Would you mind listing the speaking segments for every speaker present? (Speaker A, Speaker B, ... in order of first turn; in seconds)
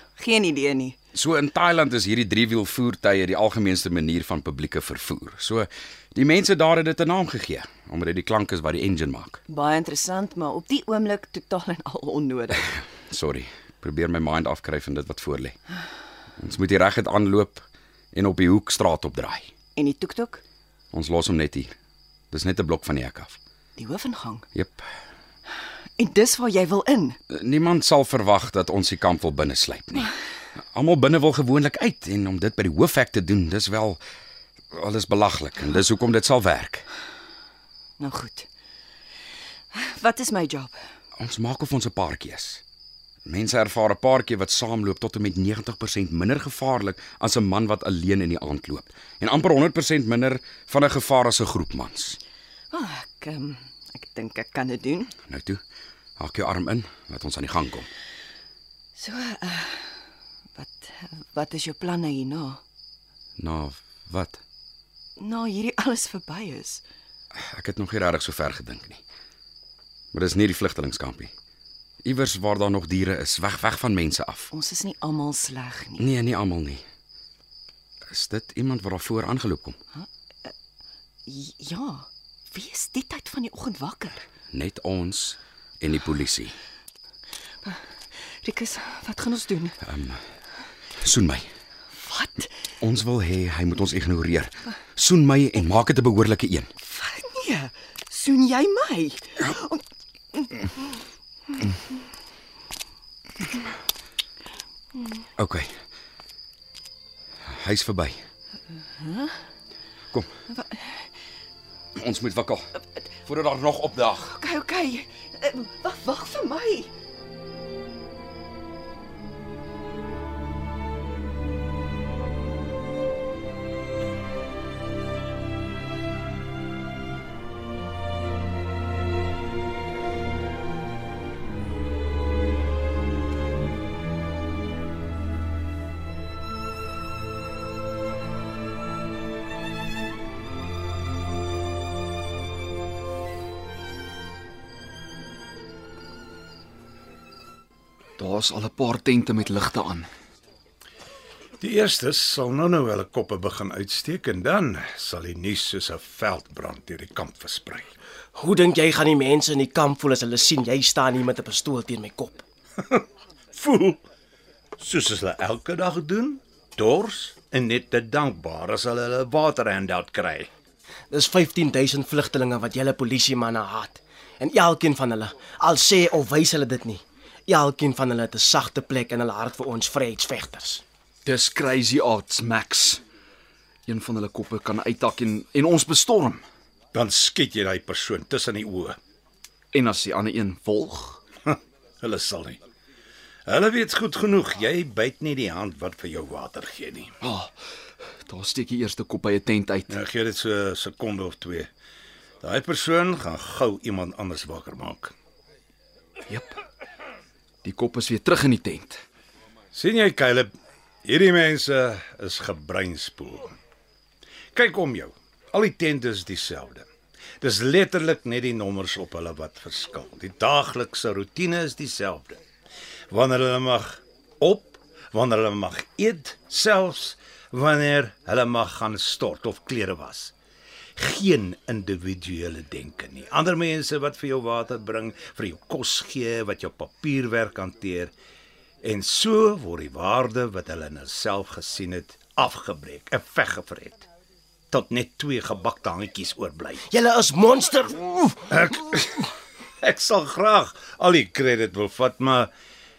Speaker A: 0.1-1.0, 9.5-12.7, 19.8-20.4, 23.8-24.5, 26.0-27.2, 38.0-38.5, 39.7-40.8, 52.7-55.1, 59.0-60.0, 60.5-62.6, 65.2-66.8, 74.5-76.0, 80.0-80.5, 81.3-84.3, 87.6-89.8, 91.9-92.5, 96.8-99.8, 100.3-100.7, 109.0-109.3, 110.6-111.0, 114.2-116.9
Speaker B: 1.1-9.4, 12.7-15.6, 16.4-19.5, 20.9-21.7, 22.3-23.4, 24.5-24.9, 27.3-34.0, 34.7-36.9, 41.2-42.6, 43.2-52.2, 55.3-55.6, 56.2-57.9, 63.4-64.4, 67.3-69.0, 70.1-71.3, 72.0-74.5, 76.0-76.8, 78.1-79.8, 84.5-86.5, 89.8-90.2, 91.0-91.5, 92.8-96.7, 105.4-105.7, 107.4-108.2, 112.0-112.7, 113.2-114.3
Speaker C: 148.2-150.1, 181.2-183.0, 183.9-186.4, 189.7-191.2, 197.2-197.5, 198.2-200.0, 206.3-206.6, 207.6-209.0
Speaker D: 151.6-157.9, 162.8-164.0, 164.8-170.5, 186.9-189.0, 191.5-192.6, 193.5-197.2, 199.9-201.7, 202.4-205.1, 209.7-210.5, 211.0-213.6, 214.5-216.9, 217.4-222.4, 223.1-230.3, 231.0-238.1, 238.8-244.1, 244.7-246.9, 248.4-249.3, 249.8-252.5
Speaker E: 158.4-162.4, 171.1-180.8, 246.9-248.4